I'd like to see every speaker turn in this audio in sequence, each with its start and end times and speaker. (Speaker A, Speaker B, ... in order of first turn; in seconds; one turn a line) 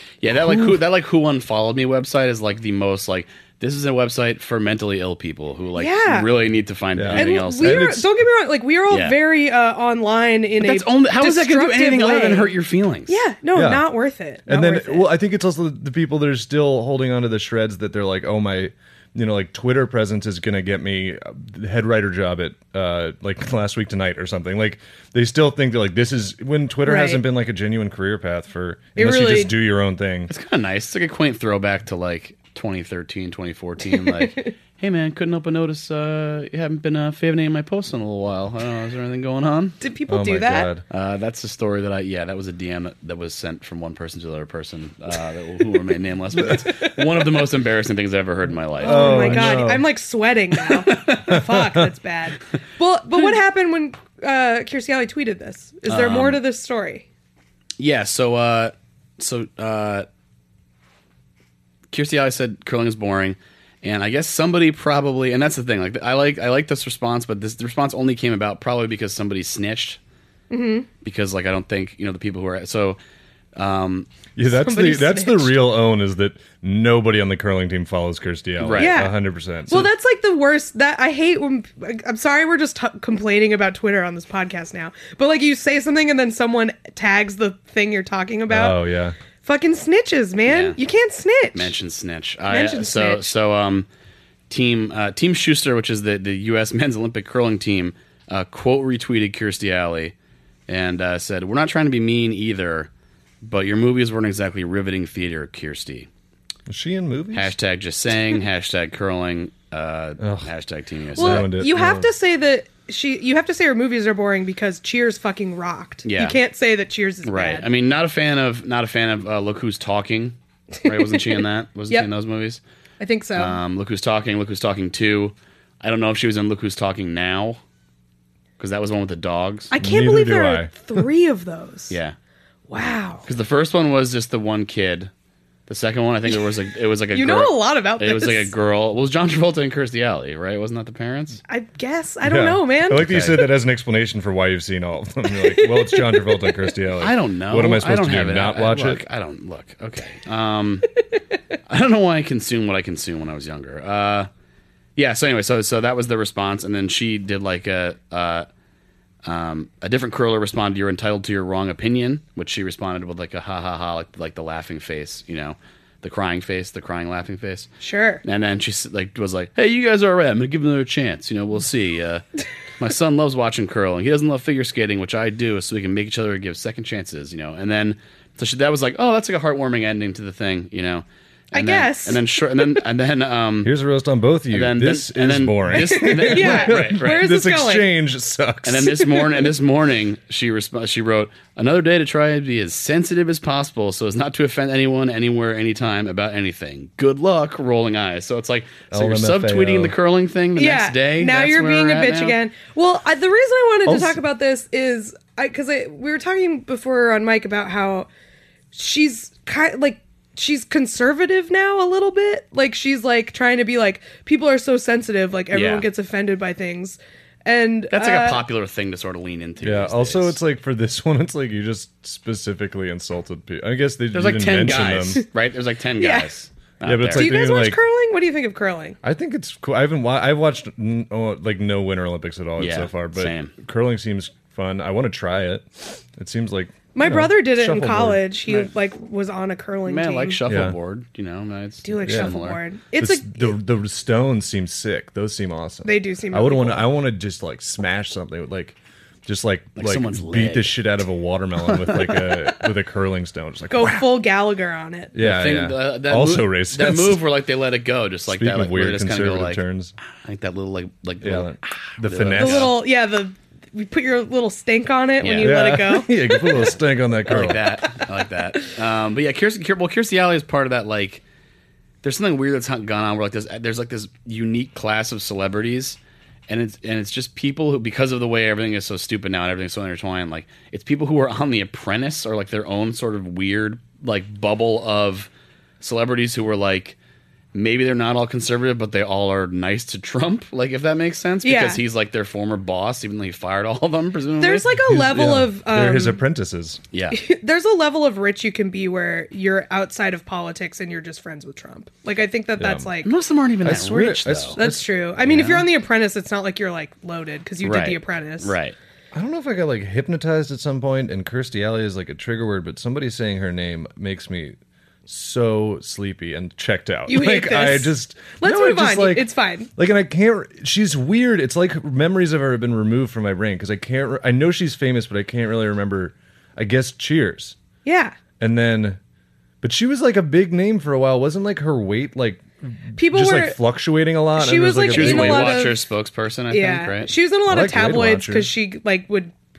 Speaker A: 0.2-7.9
Speaker B: 5.8-6.3
Speaker C: 7.0-8.1
Speaker B: 7.1-12.5
Speaker A: 8.9-9.1
Speaker A: 10.6-13.1
Speaker B: 13.1-15.1
Speaker C: 13.5-13.9
Speaker C: 14.5-30.3
Speaker B: 26.8-27.2
Speaker B: 28.9-29.6
Speaker A: 30.3-39.8
Speaker B: 39.8-40.7
Speaker C: 40.1-40.8
Speaker A: 40.9-49.6
Speaker C: 48.8-49.9
Speaker B: 48.8-57.0
Speaker A: 50.8-51.2
Speaker C: 51.3-51.7
Speaker A: 55.9-56.4
Speaker A: 57.8-60.1
Speaker A: 61.9-70.0
Speaker B: 70.5-70.9
Speaker A: 71.0-73.0
Speaker A: 73.5-74.1
Speaker C: 74.3-79.9
Speaker B: 74.5-75.5
Speaker A: 78.6-79.0
Speaker B: 78.8-79.1
Speaker B: 79.7-88.8
Speaker C: 88.5-89.2
Speaker B: 89.4-91.7
Speaker A: 90.5-90.8
Speaker A: 91.5-93.9
Speaker B: 92.5-93.3
Speaker A: 94.5-100.1
Speaker A: 100.7-102.9
Speaker A: 103.4-106.1
Speaker C: 106.7-107.5
Speaker A: 107.3-111.5
Speaker C: 110.2-110.5
Speaker B: 111.2-117.7
Speaker C: 111.2-112.1
Speaker A: 116.0-116.4
Speaker A: 117.2-122.6
Speaker B: 120.8-122.1
Speaker B: 123.0-123.6
Speaker A: 123.3-127.6
Speaker A: 128.6-129.7
Speaker B: 129.7-131.9
Speaker C: 129.8-131.0
Speaker A: 131.9-132.1
Speaker B: 132.7-133.2
Speaker A: 133.3-135.1
Speaker A: 135.7-141.4
Speaker B: 137.1-138.5
Speaker B: 141.5-143.1
Speaker C: 142.2-149.0
Speaker A: 142.9-143.4
Speaker B: 145.6-146.5
Speaker A: 147.0-150.9
Speaker A: 151.7-154.3
Speaker A: 154.9-158.5
Speaker A: 159.2-167.7
Speaker B: 167.8-168.2
Speaker A: 168.2-172.2
Speaker A: 172.8-183.7
Speaker B: 181.5-182.4
Speaker C: 183.6-189.0
Speaker A: 184.5-187.3
Speaker B: 185.7-187.9
Speaker A: 188.6-202.4
Speaker C: 198.9-199.9
Speaker B: 200.6-208.1
Speaker C: 203.8-204.2
Speaker B: 208.7-218.4
Speaker A: 215.5-215.8
Speaker A: 217.9-220.4
Speaker C: 219.6-225.2
Speaker A: 224.1-227.3
Speaker B: 226.0-226.3
Speaker C: 226.8-227.8
Speaker B: 227.1-229.0
Speaker C: 229.0-238.2
Speaker A: 232.6-233.5
Speaker B: 236.9-240.4
Speaker A: 239.9-242.6
Speaker C: 240.4-240.8
Speaker B: 241.8-243.6
Speaker C: 242.0-242.3
Speaker C: 243.0-254.1
Speaker B: 245.8-246.9
Speaker A: 249.8-250.9
Speaker A: 251.6-252.5
Speaker B: 253.7-255.1
Speaker C: 255.1-257.2
Speaker A: 255.2-259.6
Speaker C: 258.3-259.9
Speaker A: 260.2-262.8
Speaker C: 261.2-262.7
Speaker B: 262.4-266.7
Speaker A: 265.2-265.6
Speaker C: 265.3-267.7
Speaker A: 267.3-271.2
Speaker A: 272.0-286.9
Speaker A: 287.5-294.7
Speaker B: 291.4-291.8
Speaker B: 294.4-296.2
Speaker C: 294.8-296.8
Speaker A: 296.9-297.2
Speaker B: 297.1-303.1
Speaker C: 302.6-302.9
Speaker A: 303.0-304.6
Speaker C: 303.6-304.9
Speaker B: 304.6-308.5
Speaker A: 305.2-305.7
Speaker A: 307.6-308.8
Speaker C: 309.1-327.6
Speaker B: 317.1-319.7
Speaker B: 327.8-328.1
Speaker C: 328.4-329.0
Speaker C: 329.6-335.6
Speaker B: 333.0-333.6
Speaker B: 334.3-335.8
Speaker A: 334.9-337.1
Speaker B: 336.5-339.4
Speaker C: 337.4-338.5